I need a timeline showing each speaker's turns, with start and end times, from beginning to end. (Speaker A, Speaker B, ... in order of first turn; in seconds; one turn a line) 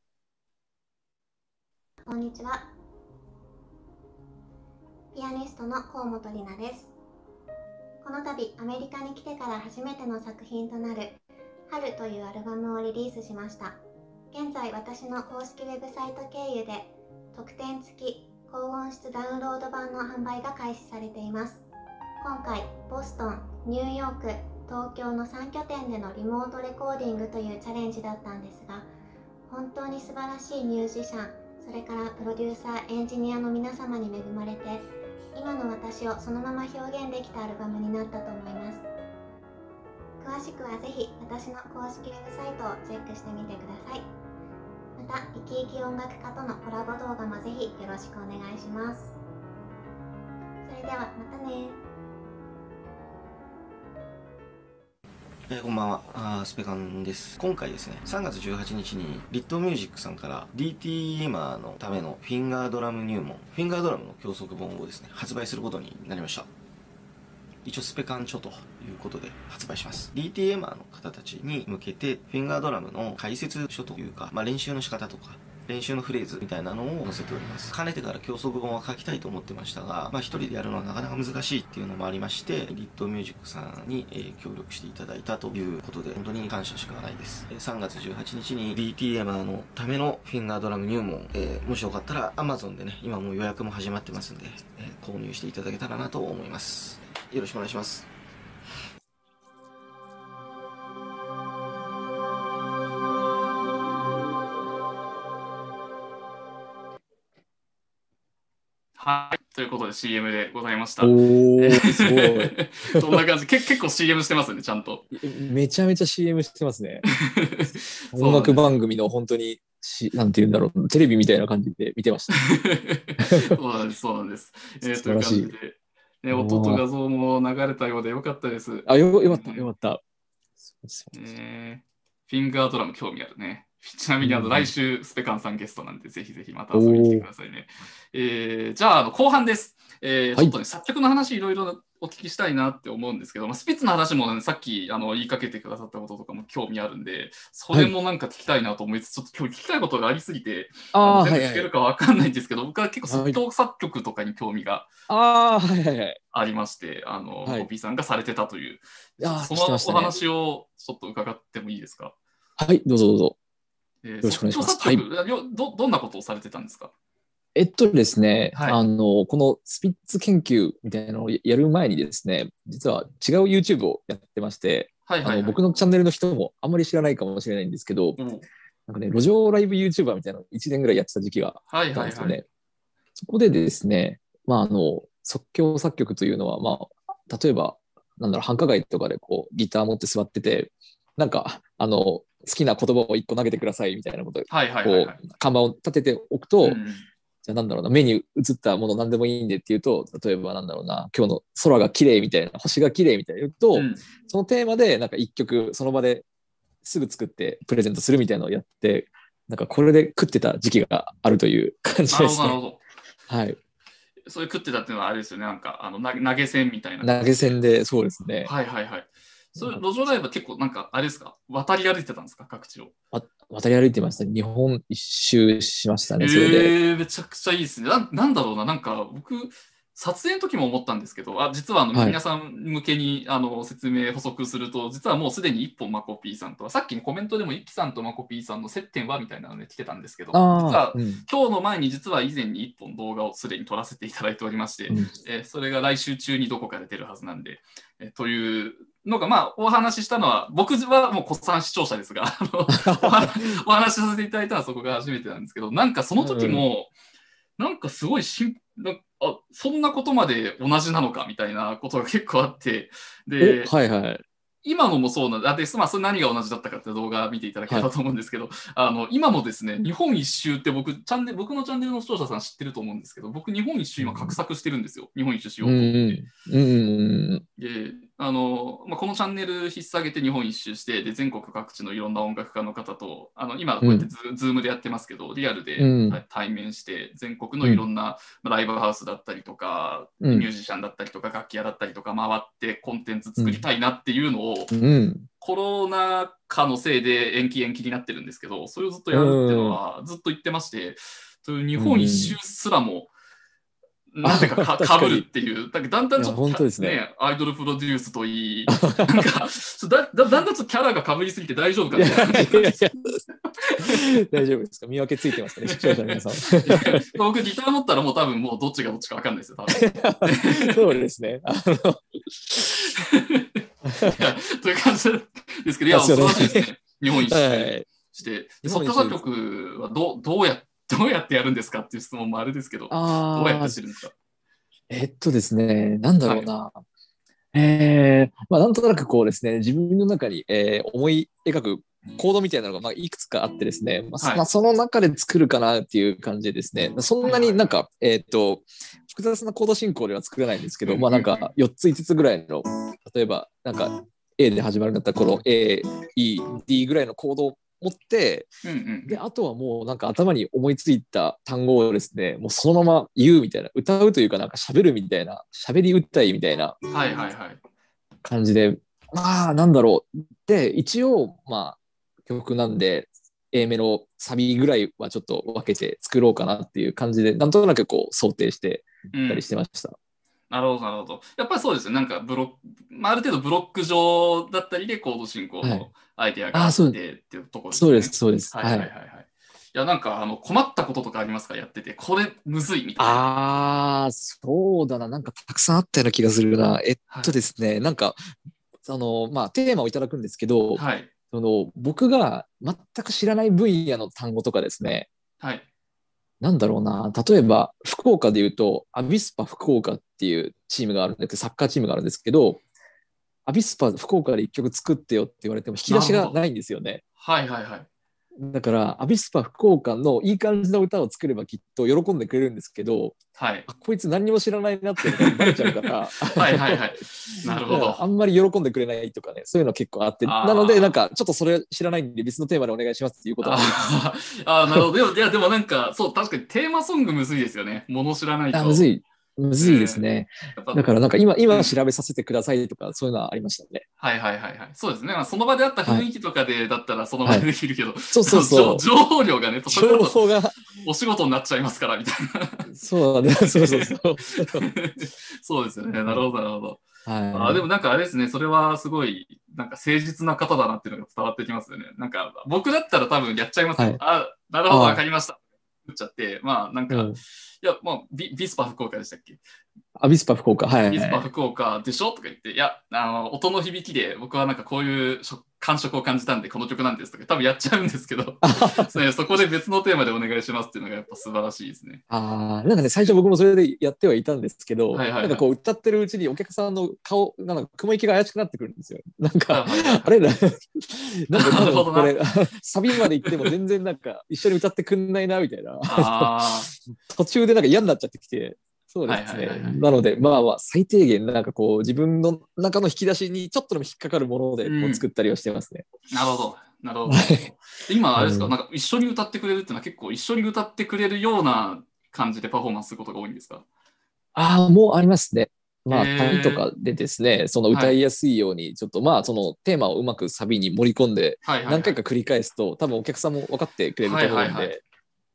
Speaker A: 2.0-2.7
Speaker A: 5.1-6.9
Speaker A: 8.0-11.2
Speaker A: 11.7-13.8
Speaker A: 14.3-21.6
Speaker A: 22.2-28.9
Speaker A: 29.5-38.8
Speaker A: 40.2-44.0
Speaker A: 45.0-49.1
Speaker A: 50.6-51.8
Speaker B: 55.5-66.5
Speaker B: 67.6-98.1
Speaker C: 109.0-115.0
Speaker D: 111.0-113.2
Speaker D: 115.1-117.0
Speaker C: 117.2-118.7
Speaker D: 118.1-122.3
Speaker C: 122.3-129.7
Speaker D: 123.2-123.5
Speaker D: 124.8-125.5
Speaker D: 126.3-126.8
Speaker D: 128.9-130.0
Speaker D: 130.8-131.1
Speaker C: 131.1-154.9
Speaker D: 134.2-134.7
Speaker D: 136.7-137.3
Speaker D: 150.9-151.7
Speaker D: 153.1-153.4
Speaker D: 155.1-156.2
Speaker C: 156.3-162.1
Speaker D: 159.2-160.2
Speaker D: 162.6-163.4
Speaker C: 164.0-166.9
Speaker D: 164.2-165.0
Speaker D: 167.5-178.2
Speaker C: 168.5-168.8
Speaker C: 175.1-175.6
Speaker C: 178.2-178.4
Speaker D: 178.9-182.4
Speaker C: 181.7-182.4
Speaker D: 183.2-196.8
Speaker C: 194.5-195.2
Speaker C: 196.6-197.1
Speaker D: 197.4-206.2
Speaker C: 203.7-204.0
Speaker D: 206.8-212.6
Speaker C: 212.1-212.8
Speaker D: 213.3-213.6
Speaker C: 214.2-217.5
Speaker D: 217.0-218.5
Speaker C: 218.4-222.9
Speaker D: 219.6-219.8
Speaker D: 223.1-226.7
Speaker C: 226.2-256.9
Speaker D: 240.3-241.2
Speaker D: 252.7-253.5
Speaker D: 256.2-256.6
Speaker C: 257.6-263.7
Speaker D: 263.4-264.2
Speaker C: 264.6-276.2
Speaker D: 274.0-274.4
Speaker D: 275.6-277.4
Speaker C: 277.6-294.7
Speaker D: 283.8-284.1
Speaker D: 285.8-286.2
Speaker D: 290.2-290.5
Speaker D: 293.4-293.6
Speaker D: 294.7-295.3
Speaker C: 295.4-303.1
Speaker D: 299.1-299.8
Speaker D: 301.8-302.3
Speaker C: 304.1-312.8
Speaker D: 304.2-305.2
Speaker D: 306.2-307.0
Speaker D: 308.7-309.3
Speaker D: 311.9-313.2
Speaker C: 313.4-314.1
Speaker D: 313.8-317.0
Speaker C: 315.6-320.8
Speaker D: 319.7-322.8
Speaker C: 322.8-334.1
Speaker D: 323.8-324.2
Speaker D: 325.9-327.9
Speaker D: 328.6-329.2
Speaker D: 332.9-333.8
Speaker D: 334.9-336.8
Speaker C: 336.2-336.5
Speaker D: 337.5-358.5
Speaker C: 344.2-344.4
Speaker C: 347.2-347.8
Speaker C: 350.8-351.5
Speaker C: 358.6-359.2
Speaker D: 359.1-366.8
Speaker C: 366.9-367.6
Speaker D: 368.2-379.9
Speaker C: 379.1-379.4
Speaker C: 380.5-393.2
Speaker D: 385.6-385.9
Speaker D: 386.5-387.0
Speaker D: 387.7-388.9
Speaker D: 393.0-398.2
Speaker C: 397.1-397.3
Speaker D: 398.9-405.1
Speaker C: 400.7-401.1
Speaker D: 406.4-412.6
Speaker D: 413.4-417.0
Speaker C: 415.9-416.3
Speaker C: 417.2-417.9
Speaker D: 418.4-423.2
Speaker C: 423.4-423.7
Speaker D: 423.7-426.8
Speaker C: 425.0-428.0
Speaker D: 427.5-433.9
Speaker C: 430.2-431.0
Speaker C: 433.4-438.9
Speaker D: 438.5-443.8
Speaker C: 439.6-440.9
Speaker C: 441.5-441.7
Speaker C: 444.0-450.2
Speaker D: 448.1-448.8
Speaker D: 449.7-450.6
Speaker C: 450.8-452.7
Speaker D: 452.7-454.6
Speaker C: 453.4-469.4
Speaker D: 457.1-457.6
Speaker D: 464.7-465.0
Speaker D: 466.9-467.2
Speaker D: 470.0-471.2
Speaker C: 470.9-482.0
Speaker D: 478.4-478.9
Speaker D: 482.1-505.9
Speaker C: 484.9-485.4
Speaker C: 489.5-490.1
Speaker C: 491.3-492.2
Speaker C: 493.0-493.5
Speaker C: 495.9-496.7
Speaker C: 499.1-499.9
Speaker C: 504.6-505.0
Speaker C: 506.1-513.6
Speaker D: 507.1-507.5
Speaker D: 508.1-508.5
Speaker D: 514.3-524.8
Speaker C: 515.9-516.6
Speaker C: 517.7-518.0
Speaker C: 521.4-522.0
Speaker C: 524.0-524.8